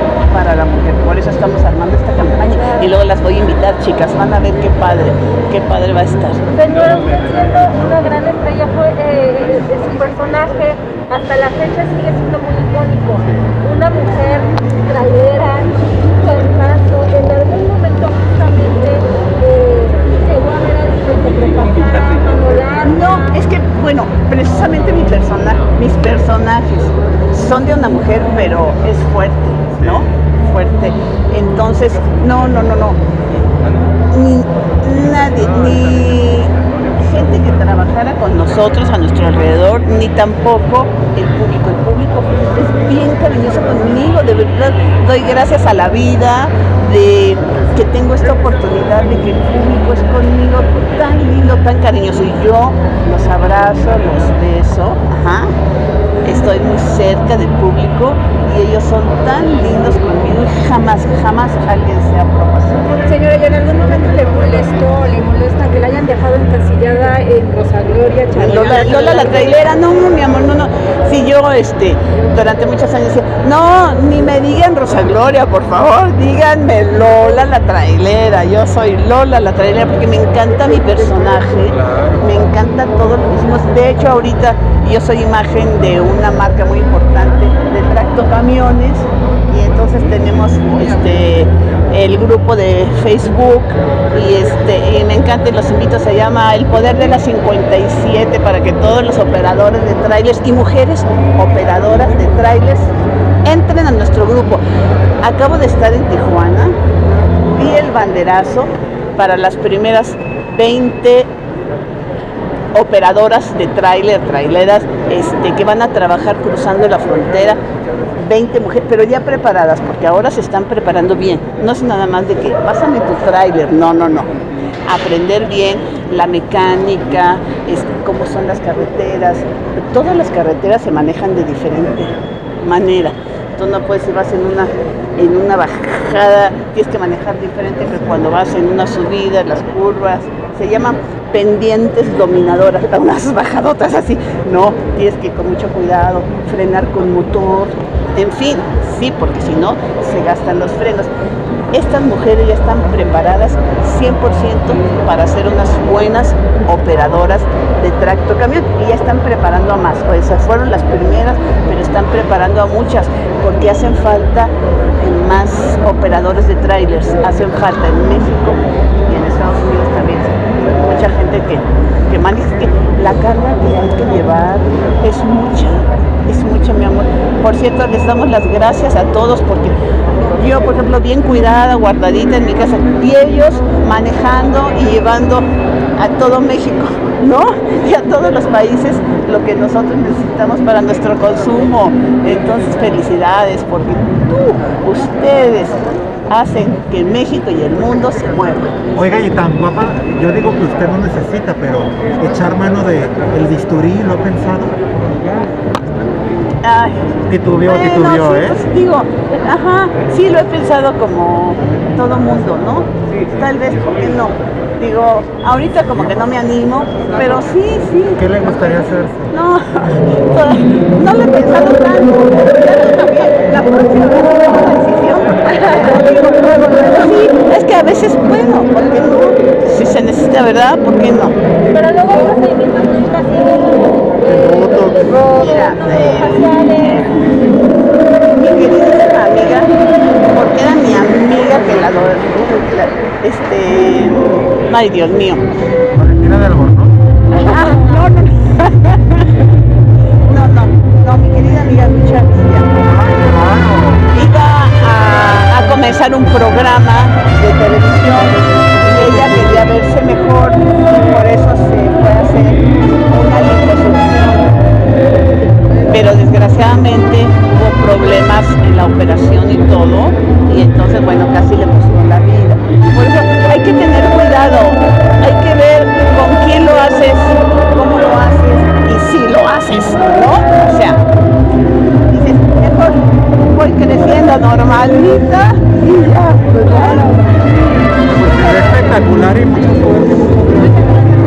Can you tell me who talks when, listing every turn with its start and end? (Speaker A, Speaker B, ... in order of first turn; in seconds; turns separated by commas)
Speaker A: 0.3-6.4, Speaker B: 6.5-23.1, Speaker A: 22.8-33.0, Speaker A: 34.1-55.5, Speaker A: 56.2-63.0, Speaker B: 63.0-69.6, Speaker A: 68.3-102.9, Speaker A: 103.4-104.6, Speaker A: 105.2-106.8, Speaker A: 107.5-111.3, Speaker A: 112.7-117.6, Speaker A: 118.2-124.3, Speaker A: 124.9-151.1, Speaker A: 151.7-179.7, Speaker A: 180.2-198.8, Speaker C: 198.9-205.4, Speaker A: 206.6-218.2, Speaker C: 207.3-208.6, Speaker C: 218.2-219.3, Speaker A: 219.3-231.3, Speaker B: 231.7-237.1, Speaker C: 234.2-235.2, Speaker A: 235.3-237.1, Speaker A: 238.3-239.7, Speaker A: 240.3-245.4, Speaker C: 245.9-246.9, Speaker A: 247.3-249.3, Speaker A: 250.3-252.7, Speaker C: 252.8-254.1, Speaker A: 254.1-264.6, Speaker A: 265.9-281.0, Speaker A: 282.1-287.2, Speaker C: 288.0-290.8